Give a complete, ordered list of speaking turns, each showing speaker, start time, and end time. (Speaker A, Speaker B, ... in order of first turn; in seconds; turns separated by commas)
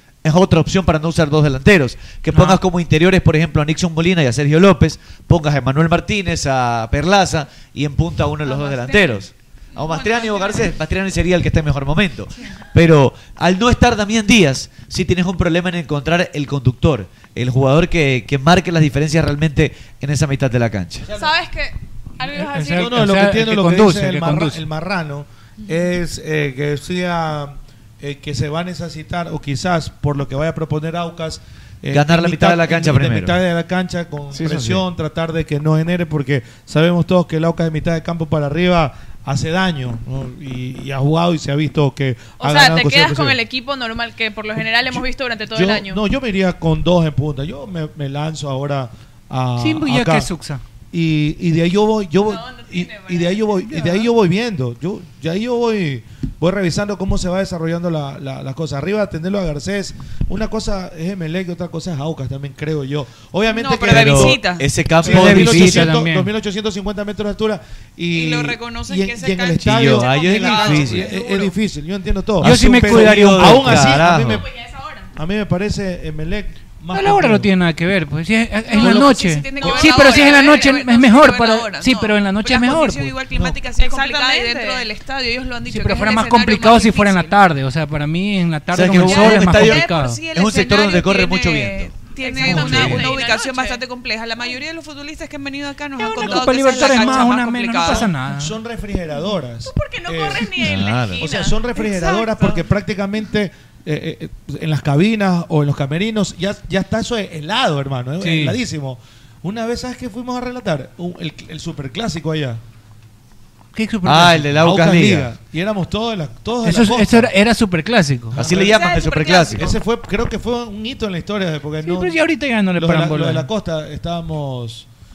Speaker A: 0.2-21.1, Speaker B: 2.3-2.6, Speaker C: 8.5-9.2, Speaker C: 9.8-10.7, Speaker C: 21.2-23.0, Speaker B: 22.2-24.6, Speaker D: 22.7-43.4, Speaker A: 31.9-33.4, Speaker A: 34.4-34.8, Speaker C: 42.4-46.0, Speaker D: 44.6-50.3, Speaker B: 49.6-50.6, Speaker D: 50.9-64.4, Speaker C: 52.2-53.8, Speaker B: 53.7-54.1, Speaker E: 63.5-64.7, Speaker A: 63.9-65.9, Speaker B: 65.0-66.3, Speaker D: 65.0-74.5, Speaker E: 68.1-71.5, Speaker A: 69.5-71.1, Speaker B: 72.4-73.9, Speaker A: 72.4-74.5, Speaker C: 74.2-75.1, Speaker D: 75.2-77.5, Speaker B: 76.9-83.2, Speaker C: 78.7-81.0, Speaker E: 78.7-87.3, Speaker D: 78.8-79.9, Speaker D: 83.3-83.6, Speaker C: 83.8-84.9, Speaker B: 85.7-90.2, Speaker C: 86.0-87.3, Speaker A: 88.7-93.1, Speaker E: 88.9-98.1, Speaker C: 92.2-93.8, Speaker C: 96.0-97.5, Speaker B: 96.2-98.6, Speaker D: 96.2-97.2, Speaker D: 97.9-112.6, Speaker C: 99.7-102.6, Speaker A: 100.6-101.3, Speaker B: 108.2-108.6, Speaker B: 113.7-114.5, Speaker A: 114.0-115.3, Speaker D: 114.5-117.3, Speaker B: 116.6-118.4, Speaker D: 118.3-118.9, Speaker A: 118.3-119.7, Speaker C: 118.5-119.7, Speaker E: 118.8-119.5, Speaker D: 119.5-122.2, Speaker B: 121.8-123.5, Speaker D: 122.7-124.9